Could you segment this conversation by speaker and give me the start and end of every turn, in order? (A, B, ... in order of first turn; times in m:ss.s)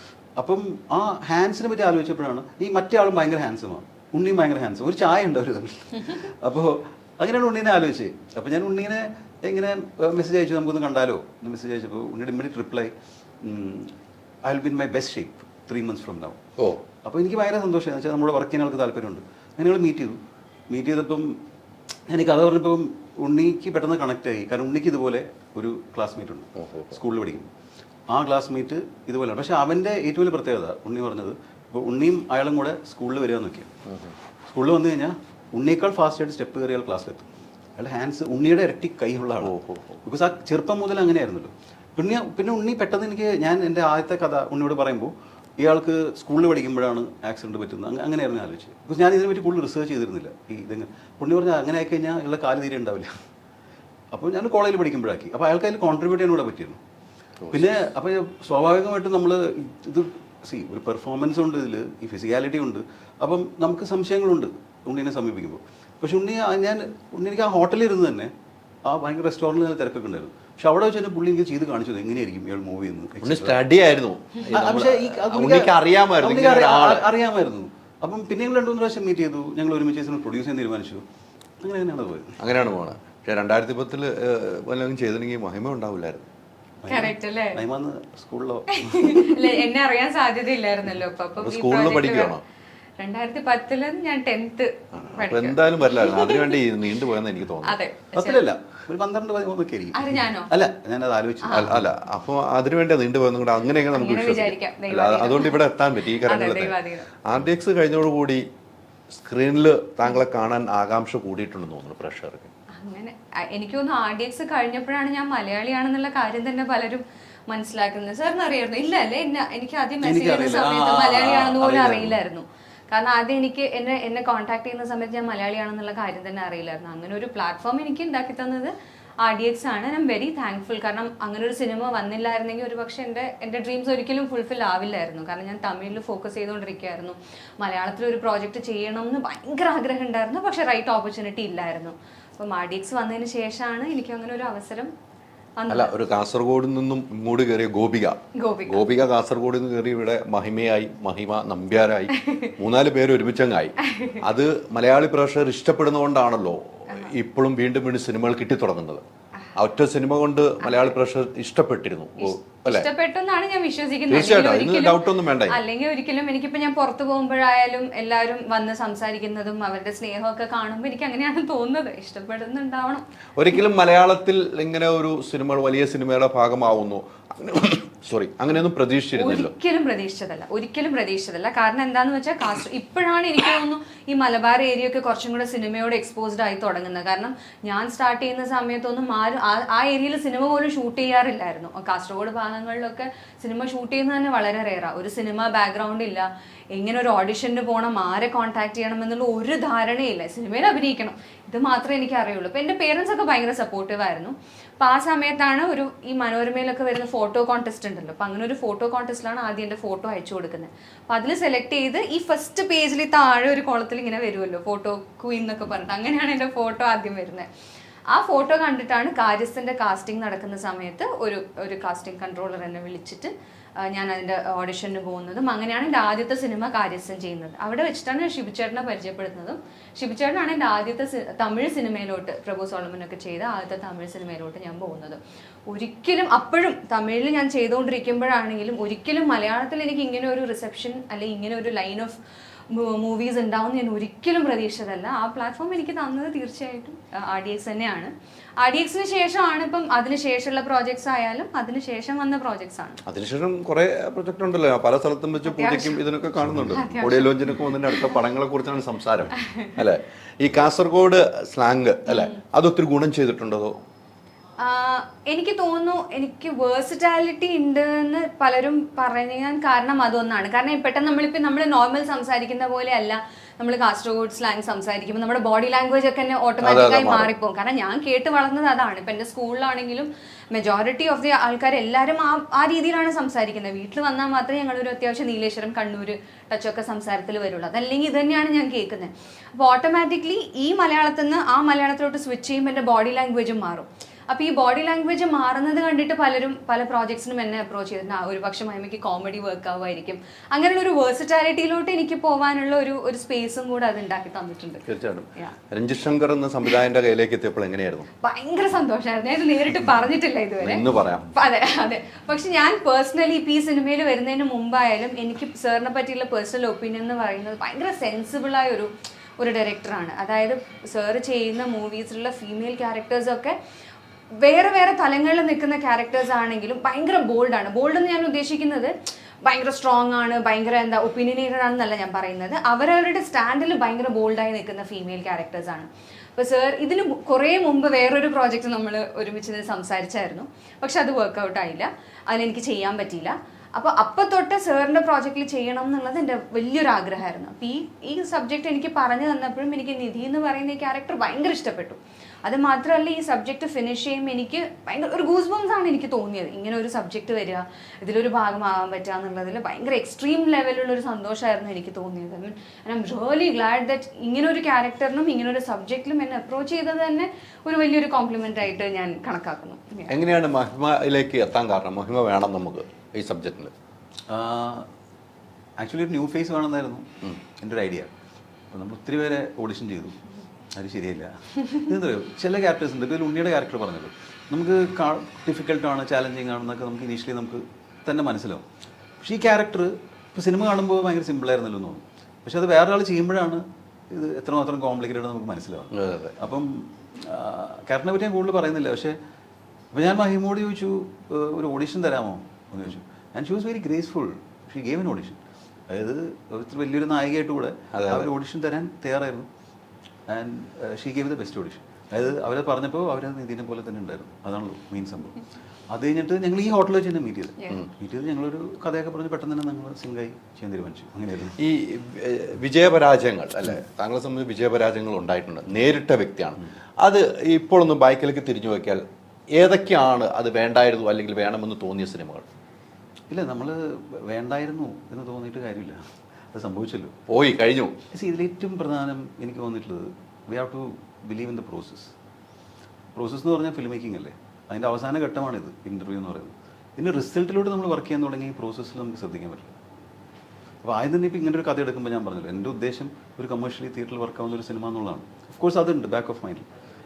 0:00.4-0:16.4 A
0:16.6-0:16.8 B
0:17.0-0:21.4 A
0:22.1-0:27.5 A
0:26.6-0:26.9 B
0:28.1-0:33.7 A
0:33.9-0:34.1 B
0:34.5-0:53.1 A
0:39.4-0:40.0 B
0:54.1-0:56.8 A
0:57.4-0:57.7 B
0:57.5-1:08.3 A
1:08.8-1:13.6 A
1:13.2-1:17.1 B
1:14.5-1:21.0 A
1:21.6-1:22.4 A
1:22.4-1:26.3 B
1:26.8-1:29.5 A
1:26.9-1:27.6 C
1:28.8-1:32.4 C
1:31.4-1:32.4 B
1:33.0-1:36.6 C
1:35.0-1:37.8 B
1:37.6-1:38.5 C
1:38.2-1:41.8 A
1:39.9-1:40.5 C
1:41.4-1:41.7 C
1:41.5-1:48.4 B
1:43.9-1:45.6 C
1:46.2-1:47.1 C
1:49.1-1:52.5 B
1:52.7-2:24.9 C
2:00.0-2:02.2 A
2:25.6-2:25.9 C
2:25.7-2:39.0 B
2:28.4-2:28.9 C
2:32.2-2:32.5 C
2:33.9-2:34.2 C
2:39.6-2:42.9 B
2:40.6-2:40.9 C
2:42.2-2:53.0 C
2:44.1-2:45.6 B
2:53.4-2:59.5 B
2:59.2-3:37.5 C
3:38.1-4:02.2 C
4:02.7-4:13.0 C
4:13.1-4:23.8 B
4:15.4-4:16.0 C
4:16.7-4:18.2 C
4:19.4-4:19.8 C
4:22.1-4:22.3 C
4:24.6-5:05.6 C
4:36.6-4:37.3 B
5:04.8-5:08.1 B
5:08.2-5:23.6 C
5:10.6-5:11.3 B
5:24.4-5:28.9 C
5:29.4-6:10.1 C
6:10.1-6:13.7 B
6:14.3-6:14.9 A
6:15.8-6:18.1 A
6:18.7-6:20.2 A
6:20.7-6:28.6 A
6:29.2-6:39.2 A
6:35.9-6:36.4 B
6:39.9-6:49.5 A
6:47.9-6:48.3 B
6:50.3-7:01.6 A
7:01.6-7:12.5 B
7:13.3-7:17.2 A
7:17.3-7:18.0 B
7:18.1-7:22.1 A
7:23.2-7:29.8 A
7:30.8-7:36.7 A